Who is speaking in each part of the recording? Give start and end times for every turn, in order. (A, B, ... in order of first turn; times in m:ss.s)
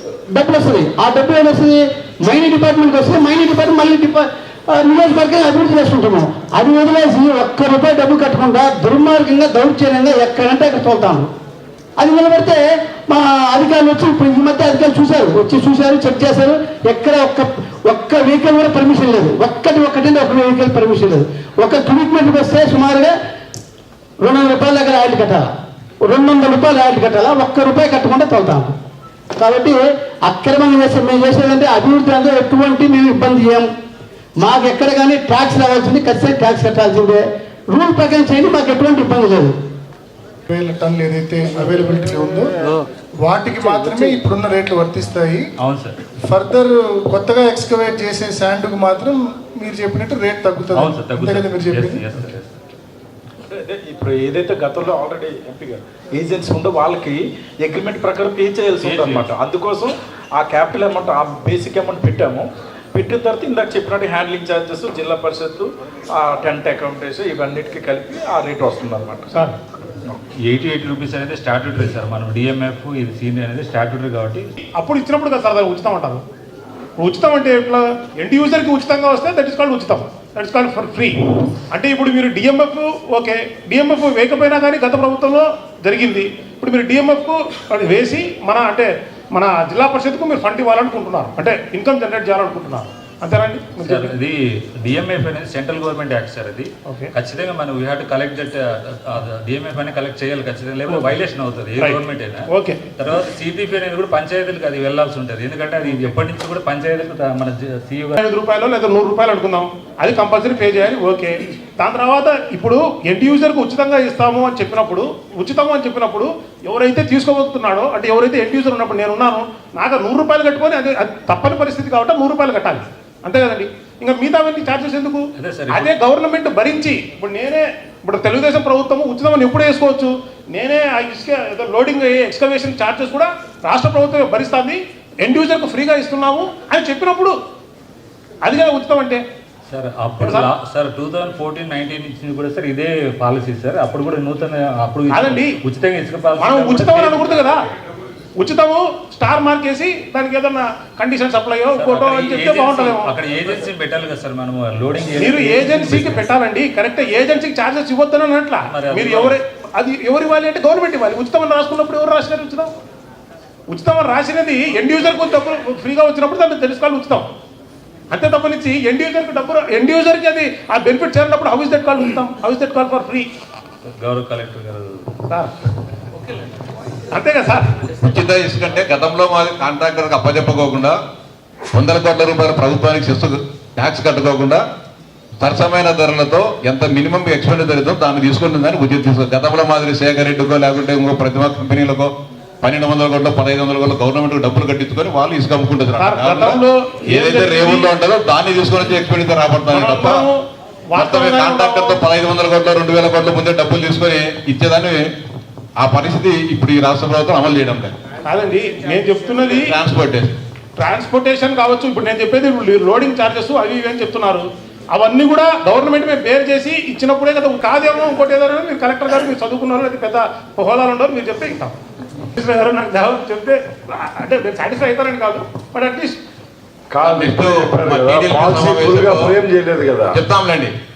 0:00.3-0:11.3 A
0:12.0-0:23.2 A
0:24.2-0:25.5 A
0:26.0-0:28.7 A
0:29.4-0:33.7 A
0:34.4-0:39.5 A
0:40.5-0:42.6 B
0:43.2-0:45.5 B
0:45.6-0:46.0 C
0:46.2-0:52.1 B
0:50.7-0:52.5 C
0:53.4-1:09.4 D
0:58.8-0:59.3 C
1:10.4-1:14.5 C
1:14.7-1:16.2 E
1:17.0-1:21.2 E
1:21.7-1:34.1 E
1:33.8-1:42.5 C
1:42.5-1:42.8 E
1:43.0-1:48.2 C
1:48.2-2:17.4 E
2:05.4-2:05.9 C
2:18.4-2:19.2 E
2:19.7-2:27.4 C
2:20.2-2:20.5 E
2:25.1-2:25.6 E
2:26.4-2:27.6 E
2:28.4-2:33.1 E
2:31.7-2:36.3 C
2:35.2-2:42.7 E
2:38.6-2:39.4 C
2:43.7-2:47.3 E
2:48.1-2:53.3 E
2:54.0-2:55.1 C
2:57.1-2:57.8 E
2:58.0-3:01.0 F
3:01.7-3:04.6 F
3:05.4-3:12.1 F
3:12.6-3:20.3 F
3:16.0-3:17.9 E
3:19.7-3:20.4 E
3:20.9-3:22.0 E
3:21.0-3:25.0 F
3:25.8-3:27.9 F
3:28.3-3:29.8 E
3:29.4-3:30.3 F
3:30.8-3:41.7 E
3:42.4-3:46.2 E
3:46.9-3:50.2 G
3:47.0-3:49.3 F
3:50.1-3:50.7 F